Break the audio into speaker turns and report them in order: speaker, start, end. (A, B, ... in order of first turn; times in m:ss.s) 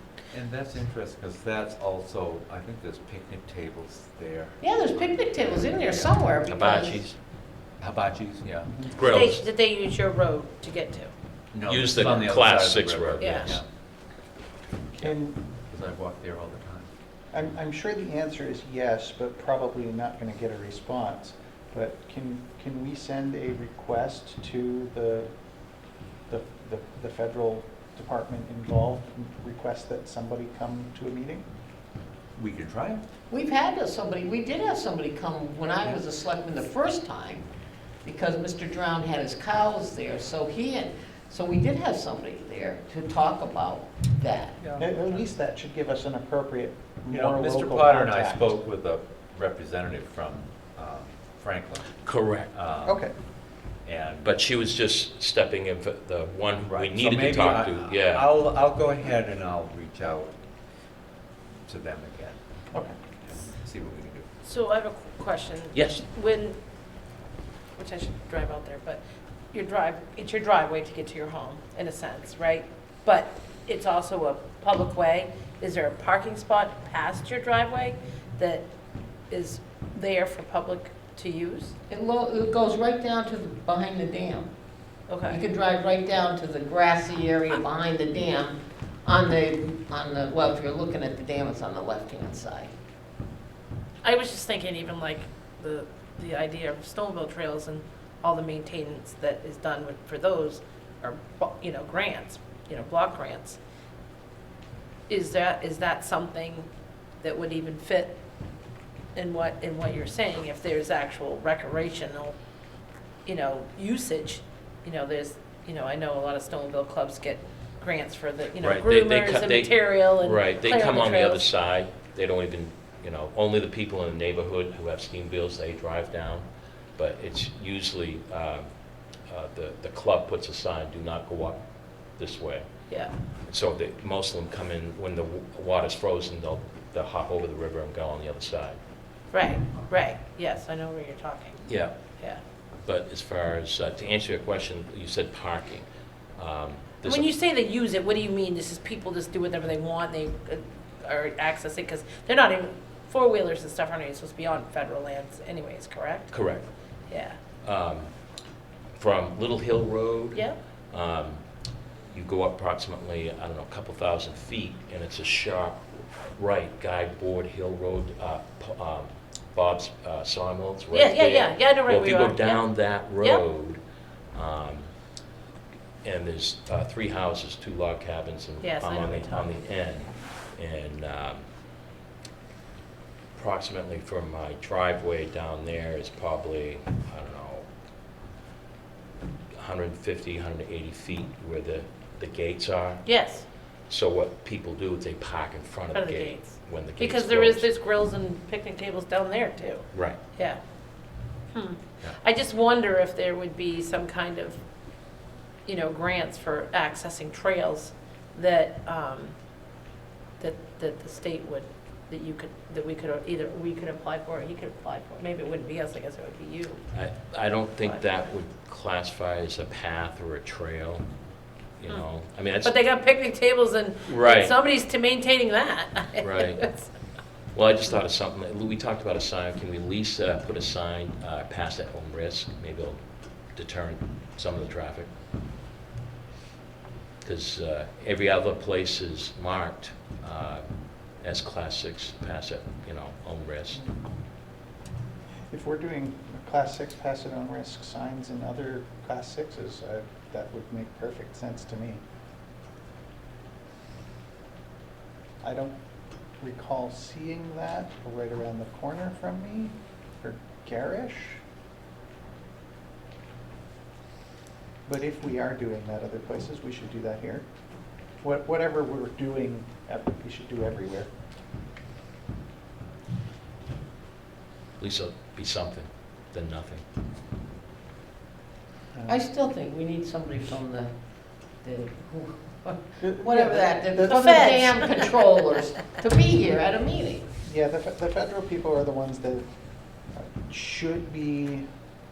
0:00.3-0:06.1 A
0:04.6-0:07.0 B
0:06.5-0:07.2 C
0:07.8-0:09.1 A
0:08.7-0:09.0 D
0:08.9-0:09.4 C
0:09.0-0:11.1 E
0:11.5-0:13.6 A
0:11.6-0:13.6 C
0:13.2-0:13.6 E
0:14.7-0:16.9 A
0:15.0-0:15.4 D
0:17.3-0:25.3 D
0:26.3-0:31.4 D
0:32.3-0:33.0 A
0:33.3-0:37.4 B
0:38.0-0:44.6 B
0:44.6-0:45.2 A
0:44.8-0:48.5 D
0:47.1-0:53.0 A
0:52.0-0:52.5 C
0:52.8-0:53.1 D
0:53.8-0:54.3 A
0:54.2-0:58.3 C
0:56.6-1:00.3 A
1:01.6-1:02.4 A
1:03.2-1:04.3 A
1:04.4-1:06.5 E
1:05.7-1:06.0 C
1:07.8-1:09.0 E
1:09.5-1:18.7 E
1:19.3-1:21.7 E
1:21.9-1:24.5 B
1:25.1-1:25.4 E
1:25.2-1:32.7 B
1:34.0-1:43.6 E
1:45.1-1:46.7 E
1:47.2-1:48.2 E
1:49.1-1:52.4 E
1:53.2-2:01.4 E
1:58.6-2:08.7 C
2:09.2-2:12.8 C
2:12.9-2:13.1 E
2:13.4-2:18.8 C
2:19.3-2:22.4 E
2:21.6-2:22.0 C
2:22.8-2:27.3 C
2:27.0-2:36.4 E
2:36.3-2:36.7 C
2:37.1-2:37.4 E
2:37.6-2:38.1 C
2:38.9-2:41.4 C
2:40.3-2:40.6 E
2:42.0-2:53.8 C
2:50.9-2:53.4 E
2:54.3-2:54.9 C
2:56.0-3:01.4 C
2:58.6-2:59.5 E
3:03.3-3:07.6 C
3:09.5-3:17.7 C
3:13.0-3:13.5 E
3:15.9-3:20.6 E
3:19.9-3:20.2 C
3:21.5-3:24.6 E
3:25.6-3:29.3 E
3:30.4-3:36.8 E
3:36.9-3:41.1 C
3:37.8-3:38.1 E
3:41.7-3:42.8 C
3:42.6-3:46.9 E
3:44.0-3:44.5 C
3:46.2-3:46.7 C
3:47.5-3:55.1 C
3:57.2-4:03.8 C
4:05.5-4:12.0 D
4:15.4-4:15.8 D
4:16.4-4:21.4 D
4:24.8-4:27.4 D
4:28.2-4:31.1 D
4:34.8-4:36.8 C
4:38.9-4:39.2 D
4:39.0-4:47.2 B
4:43.0-4:44.4 D
4:44.0-4:45.1 E
4:47.4-4:49.5 D
4:50.0-4:51.6 D